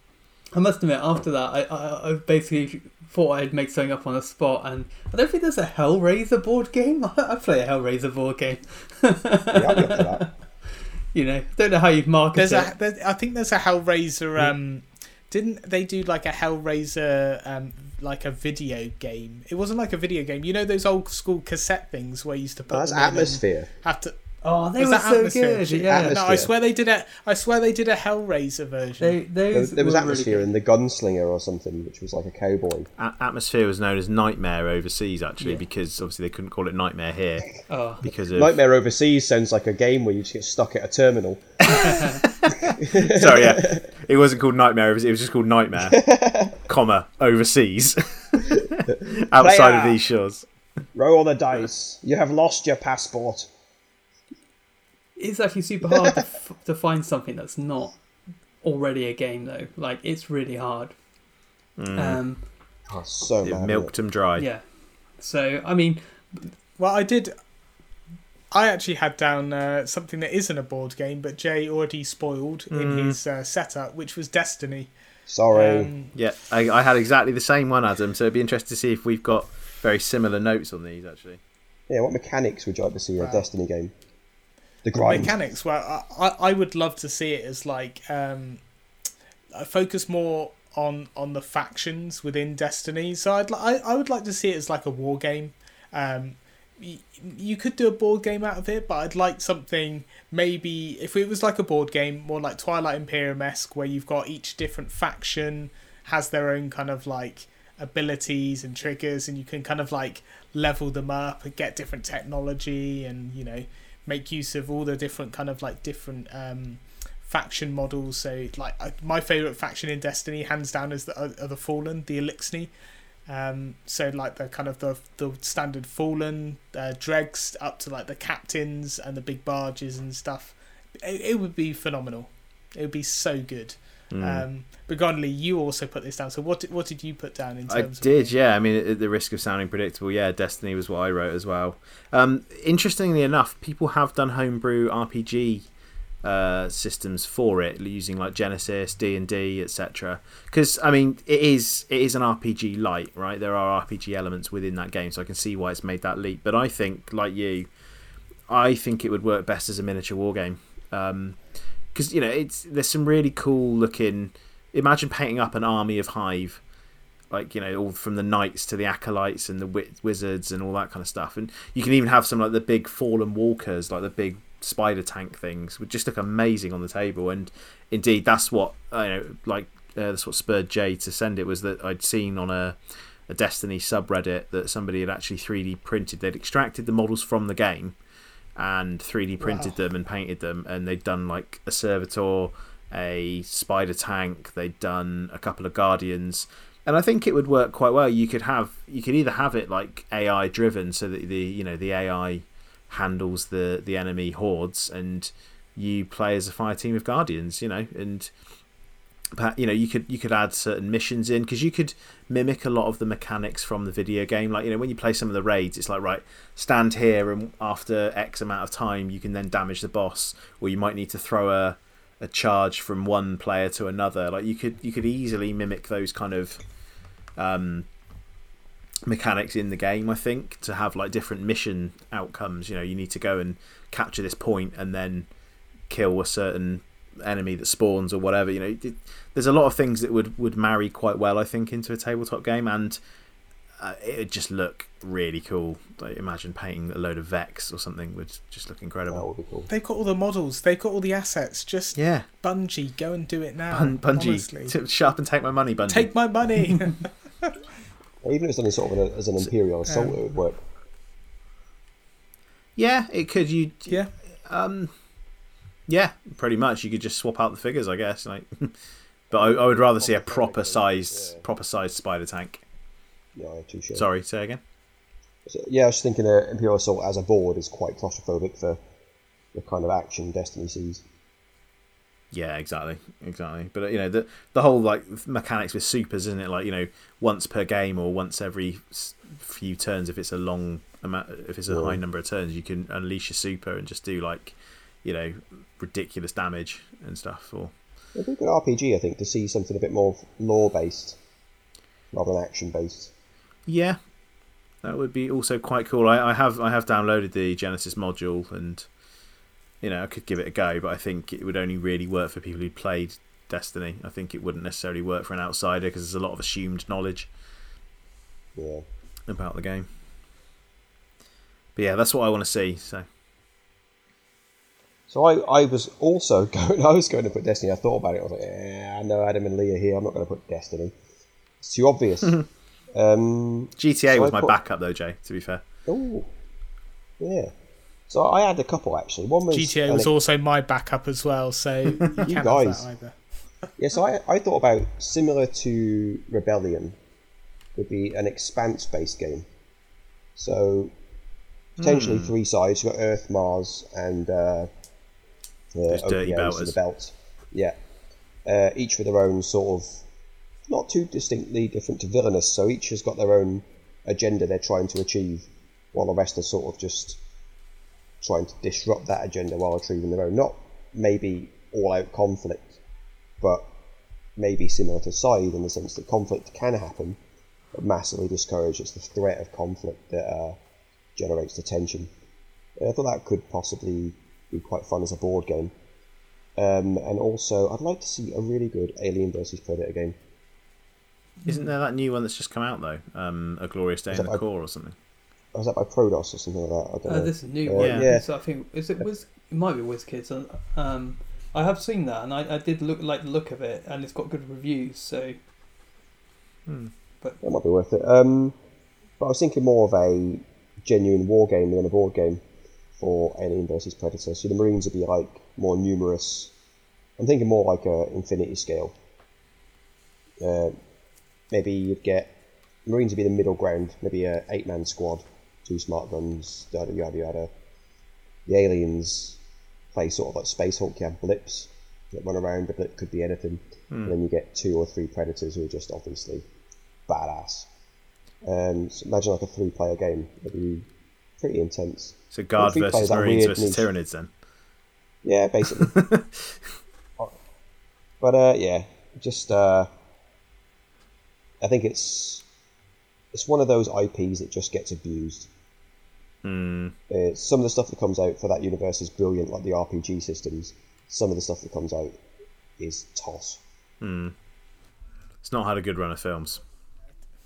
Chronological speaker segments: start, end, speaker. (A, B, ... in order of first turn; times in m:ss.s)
0:00.5-0:10.3 A
0:09.5-0:10.3 B
0:11.1-0:12.7 A
0:12.4-0:24.2 C
0:22.7-0:23.7 B
0:24.4-0:26.2 A
0:24.8-0:29.2 C
0:25.9-0:26.5 B
0:29.0-0:30.5 A
0:29.5-0:32.9 B
0:33.0-0:37.5 D
0:37.7-0:38.0 A
0:38.0-0:38.6 D
0:38.3-0:42.0 B
0:41.7-0:46.0 D
0:41.7-0:42.2 A
0:42.6-0:43.8 B
0:45.8-0:46.6 B
0:46.7-0:50.5 D
0:48.6-0:50.0 B
0:51.0-0:53.5 B
0:55.2-0:58.0 A
0:55.8-0:56.2 B
0:58.6-1:00.9 A
1:01.8-1:02.2 D
1:02.0-1:02.4 A
1:02.9-1:03.9 B
1:03.4-1:04.5 D
1:04.4-1:04.6 A
1:05.2-1:06.5 A
1:06.8-1:07.3 C
1:08.5-1:14.9 C
1:12.7-1:13.2 D
1:15.3-1:15.9 B
1:15.5-1:16.1 C
1:16.2-1:21.4 D
1:21.9-1:23.9 B
1:23.2-1:23.5 C
1:24.8-1:25.3 B
1:25.0-1:28.6 C
1:29.6-2:02.7 C
2:03.3-2:18.3 C
2:14.1-2:14.5 D
2:17.7-2:25.7 D
2:26.2-2:37.7 D
2:38.5-2:41.4 D
2:41.9-2:46.6 D
2:47.3-3:08.0 D
3:08.6-3:28.3 D
3:09.4-3:09.7 C
3:29.4-3:46.6 D
3:47.4-3:47.9 D
3:49.1-3:55.3 D
3:55.9-4:03.0 D
4:03.8-4:09.3 D
4:09.1-4:09.7 B
4:09.7-4:14.7 C
4:12.0-4:12.3 D
4:13.7-4:16.1 D
4:15.9-4:17.5 C
4:18.2-4:20.6 B
4:19.9-4:20.2 C
4:22.8-4:24.9 D
4:25.9-4:28.8 D
4:29.3-4:32.6 D
4:29.3-4:31.4 B
4:33.4-4:34.1 B
4:34.0-4:34.6 D
4:35.5-4:38.8 B
4:39.5-4:41.0 B
4:42.3-4:57.7 D
4:51.7-4:52.0 B
4:58.2-5:01.2 B
5:02.1-5:03.1 B
5:03.7-5:04.0 D
5:04.8-5:08.9 D
5:09.8-5:17.3 D
5:18.6-5:18.8 B
5:19.3-5:19.9 D
5:21.8-5:23.1 D
5:25.1-5:30.9 B
5:31.6-5:34.6 B
5:33.8-5:35.6 D
5:35.9-5:36.3 B
5:37.2-5:37.5 B
5:38.1-5:40.1 B
5:39.5-5:43.2 C
5:42.0-5:42.9 B
5:43.8-5:47.0 B
5:47.8-5:49.5 B
5:50.4-5:50.9 B
5:51.8-5:52.3 D
5:51.8-5:54.7 B
5:55.7-5:57.8 B
5:55.9-5:56.8 D
5:58.4-6:00.0 B
6:00.7-6:07.2 B
6:08.2-6:12.8 B
6:13.4-6:13.7 B
6:14.4-6:17.2 B
6:17.7-6:20.6 B
6:21.2-6:22.1 B
6:22.8-6:25.7 B
6:26.6-6:30.2 B
6:31.5-6:35.0 D
6:34.1-6:34.4 B
6:35.5-6:38.2 B
6:37.1-6:45.4 A
6:37.8-6:38.1 D
6:46.7-6:46.9 D
6:47.4-6:48.6 B
6:49.2-6:52.4 B
6:53.0-6:56.5 B
6:57.2-6:59.0 B
7:00.4-7:00.8 B
7:01.5-7:02.3 B
7:02.9-7:07.5 B
7:08.5-7:09.4 B
7:09.9-7:16.4 B
7:17.1-7:17.7 B
7:18.4-7:20.9 B
7:21.4-7:23.8 B
7:22.3-7:24.3 D
7:25.2-7:25.9 B
7:25.8-7:26.6 D
7:28.2-7:29.9 B
7:31.6-7:32.5 B
7:33.3-7:35.5 B
7:36.4-7:37.0 D
7:37.1-7:42.2 B
7:42.8-7:43.6 B
7:44.0-7:44.4 D
7:45.4-7:46.6 D